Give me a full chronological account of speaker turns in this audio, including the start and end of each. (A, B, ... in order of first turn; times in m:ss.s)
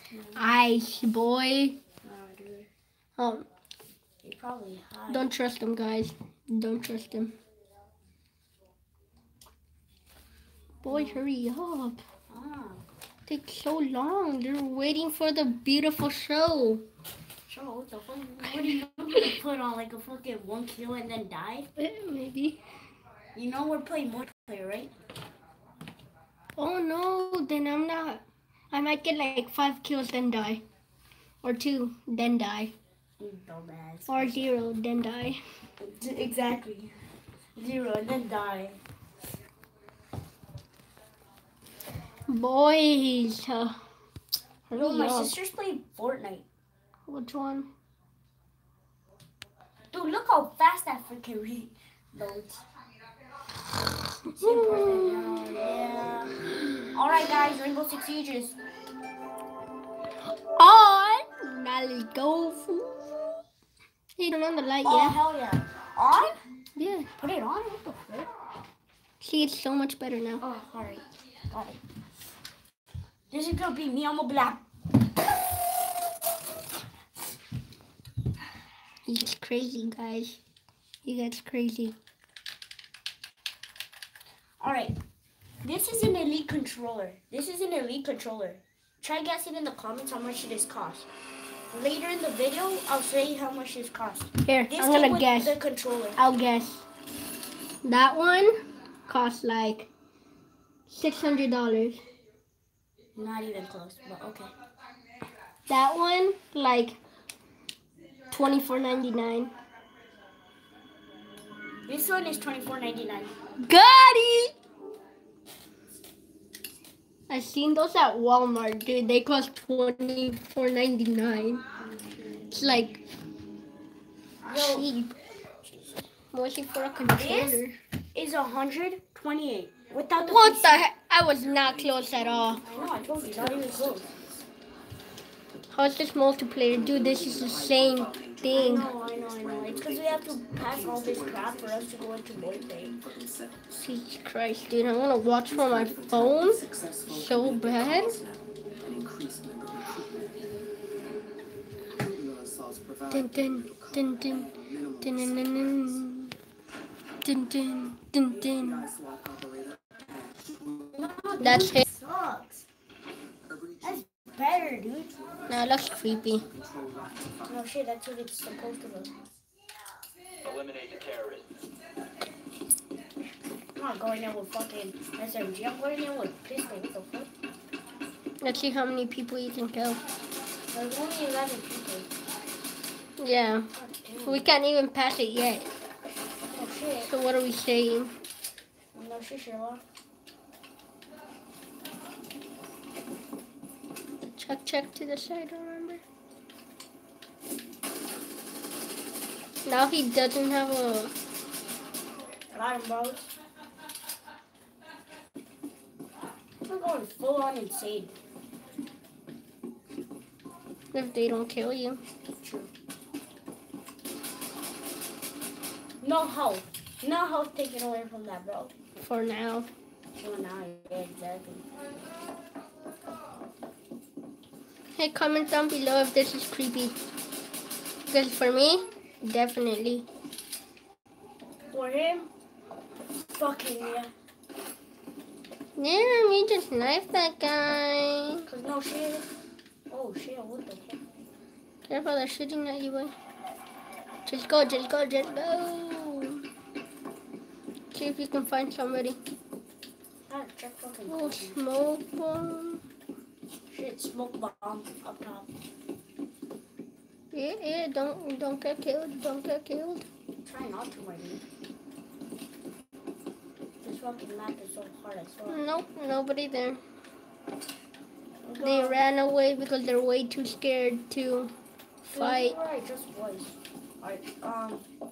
0:00.1-0:00.4 A
0:00.3-0:01.8 B
0:02.0-0:02.7 A
0:03.2-0:03.4 B
0:04.2-0:05.3 A
0:05.1-0:07.4 B
0:10.8-0:12.0 B
0:10.9-0:11.2 A
0:12.3-0:12.8 A
0:13.3-0:16.8 B
0:17.5-0:21.7 A
0:21.8-0:22.6 B
0:23.3-0:24.9 A
0:26.6-0:30.6 B
0:31.4-0:32.7 B
0:33.2-0:34.4 A
0:34.1-0:35.4 B
0:35.8-0:36.9 A
0:37.6-0:38.8 A
0:42.3-0:43.8 B
0:44.7-0:45.4 B
0:44.7-0:46.5 A
0:47.1-0:47.7 B
0:49.9-0:52.6 A
0:54.2-0:56.4 A
0:54.3-0:55.4 B
0:56.9-0:58.6 A
1:00.6-1:03.3 B
1:04.2-1:05.2 B
1:04.8-1:06.4 A
1:06.8-1:07.1 B
1:07.2-1:08.3 A
1:09.2-1:10.4 B
1:10.4-1:11.8 A
1:13.3-1:14.6 A
1:19.0-1:20.4 B
1:21.0-1:21.9 B
1:24.6-1:25.0 A
1:25.6-1:31.1 A
1:31.7-1:36.2 A
1:34.4-1:35.6 B
1:36.2-1:36.8 B
1:37.8-1:39.9 B
1:40.9-1:42.0 B
1:43.1-1:44.5 A
1:45.7-1:47.0 B
1:48.3-1:49.5 B
1:51.8-1:53.4 A
1:53.6-1:54.5 B
1:57.3-2:01.6 B
2:01.8-2:02.6 A
2:02.5-2:03.0 B
2:04.4-2:04.9 A
2:04.5-2:05.2 B
2:06.3-2:07.8 B
2:07.1-2:07.6 A
2:08.1-2:10.9 A
2:10.2-2:12.6 B
2:11.2-2:14.4 C
2:12.6-2:14.1 A
2:15.7-2:18.9 B
2:16.7-2:23.7 C
2:18.5-2:22.9 A
2:23.7-2:28.2 B
2:25.4-2:30.5 C
2:31.9-2:36.2 C
2:33.1-2:34.5 B
2:35.0-2:36.3 B
2:37.2-2:38.9 B
2:38.2-2:41.1 C
2:40.9-2:42.6 A
2:41.4-2:41.8 B
2:43.4-2:47.6 C
2:43.8-2:45.1 A
2:45.5-2:46.4 B
2:47.4-2:49.2 A
2:50.4-2:51.4 C
2:53.7-2:57.3 A
2:58.4-3:00.0 B
3:00.7-3:02.1 A
3:03.2-3:03.7 B
3:03.7-3:04.5 A
3:04.2-3:05.7 B
3:06.5-3:07.1 A
3:07.0-3:08.1 B
3:08.9-3:09.8 A
3:14.2-3:16.0 B
3:19.6-3:21.1 B
3:22.5-3:23.3 A
3:26.6-3:28.1 A
3:30.9-3:32.0 B
3:32.4-3:32.7 A
3:36.0-3:38.7 A
3:39.0-3:39.7 B
3:40.2-3:41.6 A
3:45.0-3:46.9 B
3:48.1-3:50.1 B
3:51.7-3:52.3 A
3:53.4-3:54.1 A
3:55.8-3:58.5 B
3:58.5-3:59.3 A
3:59.9-4:01.0 A
4:01.9-4:03.1 B
4:04.2-4:06.4 B
4:07.9-4:09.2 B
4:10.3-4:11.6 A
4:11.1-4:12.8 B
4:13.7-4:15.5 A
4:17.3-4:20.0 B
4:20.4-4:21.4 A
4:23.8-4:25.6 A
4:25.5-4:26.8 B
4:28.4-4:29.0 A
4:28.6-4:31.5 B
4:32.0-4:32.6 B
4:32.1-4:34.8 A